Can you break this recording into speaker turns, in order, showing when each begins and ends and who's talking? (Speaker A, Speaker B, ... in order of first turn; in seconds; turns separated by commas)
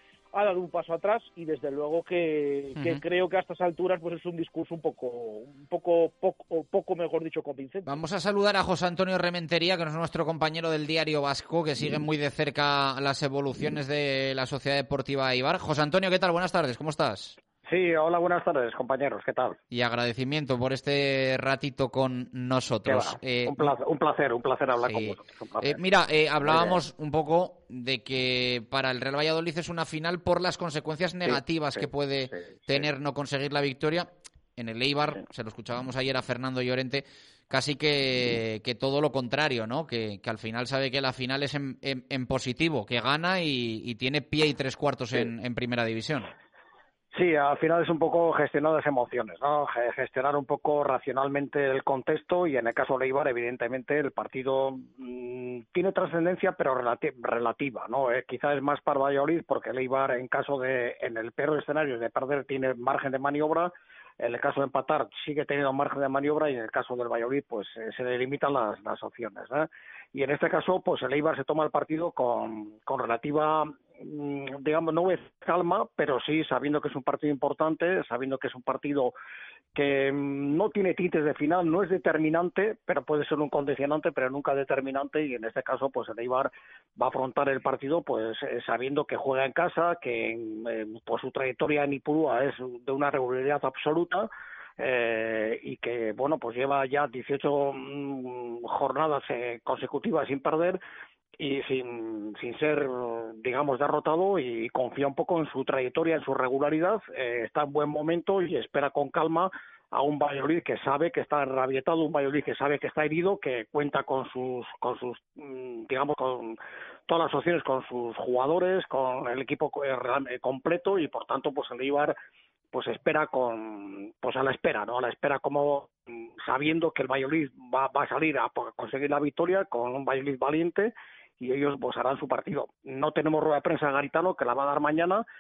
Speaker A: 0.3-7.9, Speaker B: 2.8-3.0, Speaker B: 7.9-17.4, Speaker C: 17.7-19.6, Speaker B: 19.7-23.8, Speaker C: 22.9-25.8, Speaker B: 24.9-46.3, Speaker C: 26.4-26.8, Speaker C: 47.1-79.1, Speaker C: 79.8-100.8, Speaker C: 101.4-116.6, Speaker C: 117.1-122.2, Speaker C: 122.7-135.2